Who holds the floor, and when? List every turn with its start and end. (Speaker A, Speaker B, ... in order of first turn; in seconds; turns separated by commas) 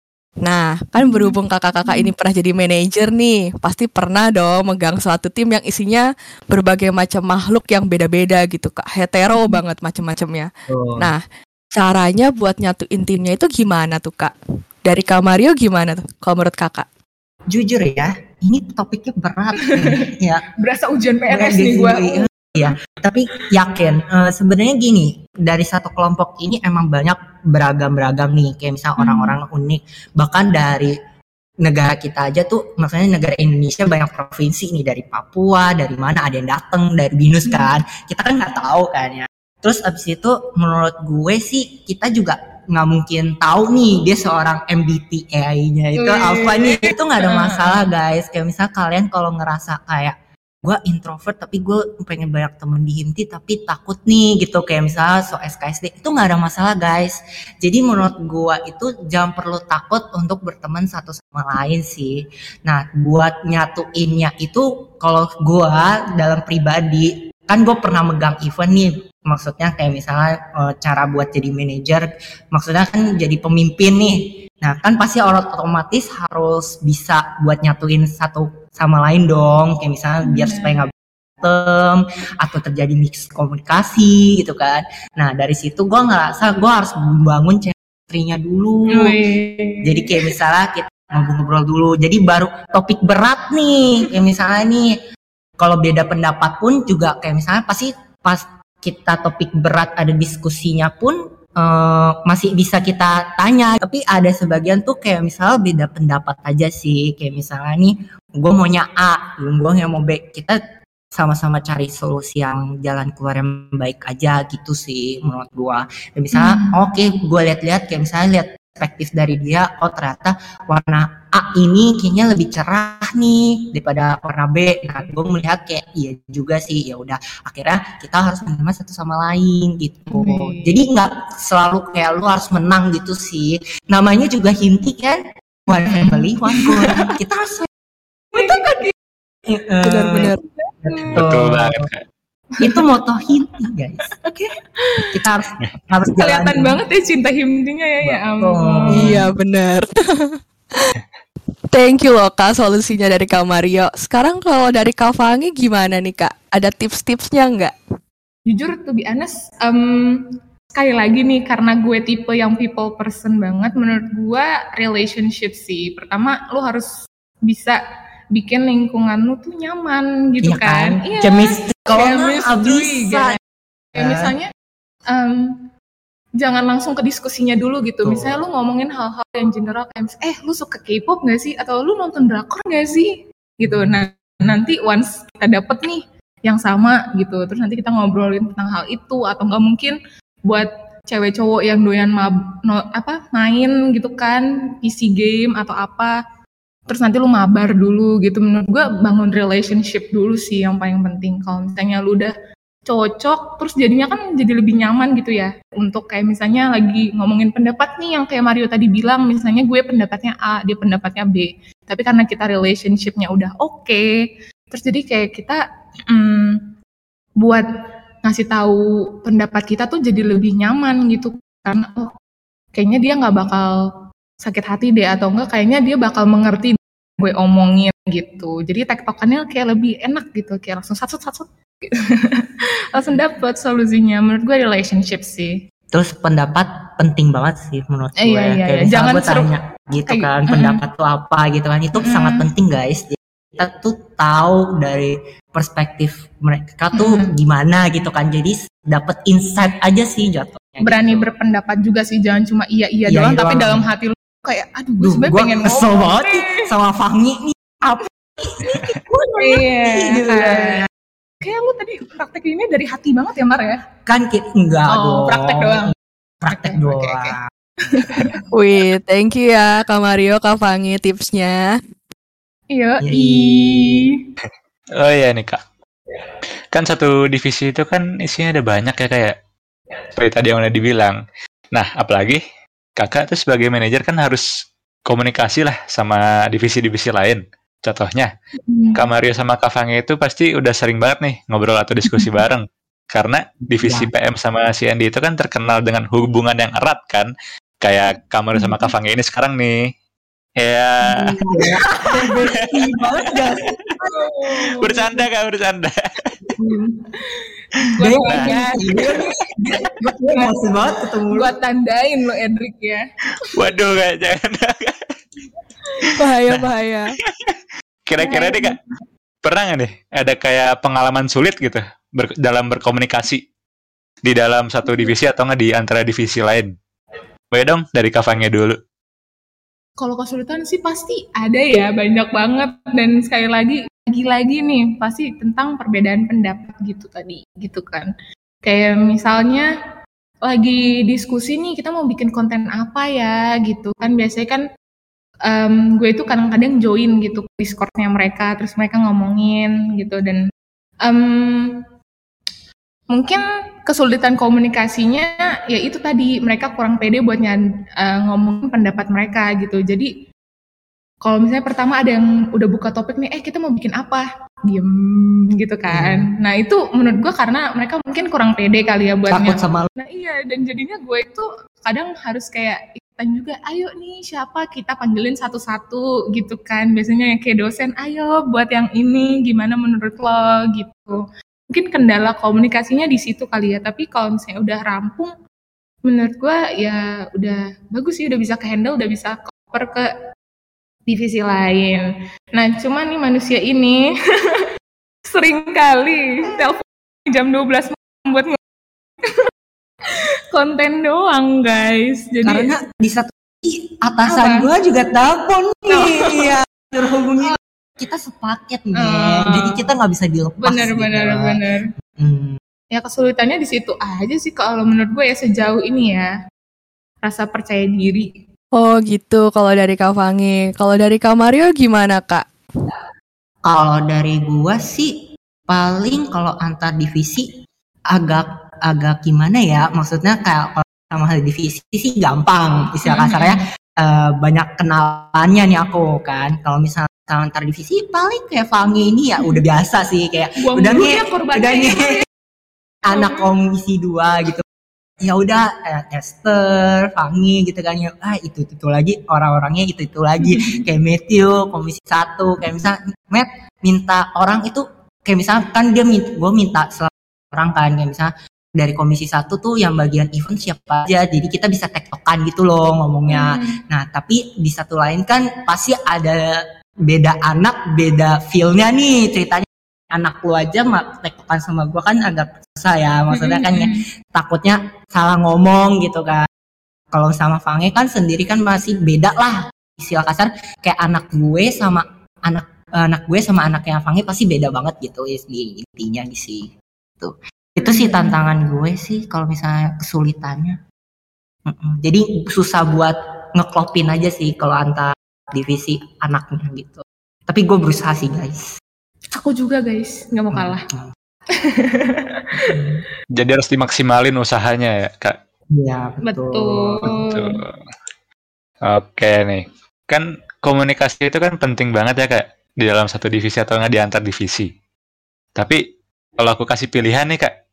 Speaker A: 0.4-11.2, Speaker B: 1.0-2.1, Speaker C: 10.7-11.1, Speaker A: 11.7-14.3, Speaker A: 14.8-16.9, Speaker C: 17.5-20.4, Speaker B: 19.6-20.1, Speaker B: 20.6-22.7, Speaker C: 21.3-30.9, Speaker B: 29.0-29.3, Speaker C: 31.6-89.2, Speaker B: 46.0-47.8, Speaker B: 80.2-80.8, Speaker B: 88.9-90.3, Speaker C: 89.8-94.9, Speaker C: 95.6-110.6, Speaker C: 111.1-137.7, Speaker B: 116.3-116.8, Speaker B: 130.1-130.8, Speaker B: 136.0-137.2, Speaker C: 138.3-138.7, Speaker B: 138.3-138.9, Speaker C: 139.5-140.3, Speaker A: 139.8-140.4, Speaker B: 140.6-141.2, Speaker C: 140.8-141.9, Speaker D: 141.1-142.0, Speaker C: 142.6-144.5, Speaker B: 144.2-145.2, Speaker C: 145.1-146.8, Speaker B: 146.2-149.1, Speaker C: 148.0-149.2, Speaker A: 148.9-150.9, Speaker A: 151.7-157.7, Speaker B: 158.5-167.8, Speaker B: 168.3-173.4, Speaker C: 170.4-173.4, Speaker C: 173.9-174.3, Speaker B: 173.9-174.5, Speaker B: 175.1-175.7, Speaker B: 176.4-196.1, Speaker C: 178.0-178.4, Speaker B: 196.9-202.3, Speaker B: 202.8-214.1, Speaker B: 214.7-216.6, Speaker B: 217.4-217.7, Speaker B: 218.2-222.1, Speaker B: 222.7-223.8, Speaker B: 224.4-235.6, Speaker C: 235.9-251.2, Speaker B: 238.2-239.5, Speaker B: 240.1-240.8, Speaker B: 242.0-242.5, Speaker B: 246.9-247.3, Speaker B: 250.8-256.7, Speaker C: 253.1-253.9, Speaker C: 255.0-260.9, Speaker B: 259.1-260.9, Speaker B: 261.4-263.8, Speaker C: 264.1-268.1, Speaker B: 264.9-265.9, Speaker B: 266.5-268.4, Speaker A: 268.5-271.7, Speaker B: 272.7-274.1, Speaker C: 273.0-274.1, Speaker D: 275.0-275.6, Speaker D: 276.7-279.3, Speaker D: 280.1-281.2, Speaker D: 281.7-282.4, Speaker D: 283.0-284.4, Speaker D: 285.1-288.3, Speaker B: 288.6-289.1, Speaker D: 288.9-297.3, Speaker B: 292.0-292.3, Speaker C: 293.8-294.1, Speaker D: 297.8-299.9, Speaker B: 298.5-298.9, Speaker D: 300.6-301.4, Speaker B: 301.1-302.3, Speaker C: 301.2-304.2, Speaker D: 302.6-303.3, Speaker B: 304.1-305.2, Speaker D: 304.5-306.3, Speaker B: 306.6-310.6, Speaker C: 308.0-311.5, Speaker D: 308.3-308.6, Speaker B: 311.3-313.5, Speaker D: 313.4-315.1, Speaker A: 316.2-317.1, Speaker D: 317.4-318.8, Speaker B: 318.2-318.8, Speaker D: 319.4-323.4, Speaker D: 324.2-326.7, Speaker B: 324.8-325.1, Speaker D: 327.5-328.8, Speaker B: 330.0-338.1, Speaker B: 338.6-339.7, Speaker B: 340.4-344.6, Speaker B: 345.5-350.5, Speaker B: 351.0-351.9, Speaker B: 353.1-360.1, Speaker B: 361.2-381.2, Speaker C: 365.9-366.2, Speaker C: 369.3-369.9, Speaker B: 381.7-385.3, Speaker B: 386.0-390.1, Speaker B: 391.1-394.7, Speaker B: 395.2-398.6, Speaker B: 400.1-402.7, Speaker C: 402.4-411.6, Speaker B: 404.3-404.7, Speaker B: 405.9-406.6, Speaker B: 409.0-409.8, Speaker B: 410.6-411.9, Speaker C: 412.2-412.6, Speaker B: 412.9-416.3, Speaker B: 417.2-418.4, Speaker A: 418.8-422.4, Speaker C: 423.6-425.1, Speaker C: 425.7-427.5, Speaker C: 428.1-442.1, Speaker B: 433.0-433.6, Speaker B: 440.6-442.2, Speaker C: 443.1-444.6, Speaker B: 443.1-443.5, Speaker C: 445.2-476.5, Speaker B: 450.4-450.8, Speaker B: 463.3-463.8, Speaker B: 473.3-474.0, Speaker C: 477.1-490.8, Speaker B: 487.8-488.4, Speaker C: 491.6-498.7, Speaker B: 499.3-500.8, Speaker C: 500.5-501.1, Speaker B: 501.5-502.8, Speaker C: 502.6-503.0, Speaker D: 503.3-505.4, Speaker C: 505.7-507.1, Speaker B: 506.2-507.6, Speaker D: 507.0-507.7, Speaker D: 508.8-514.7, Speaker D: 515.5-515.8, Speaker D: 516.4-517.5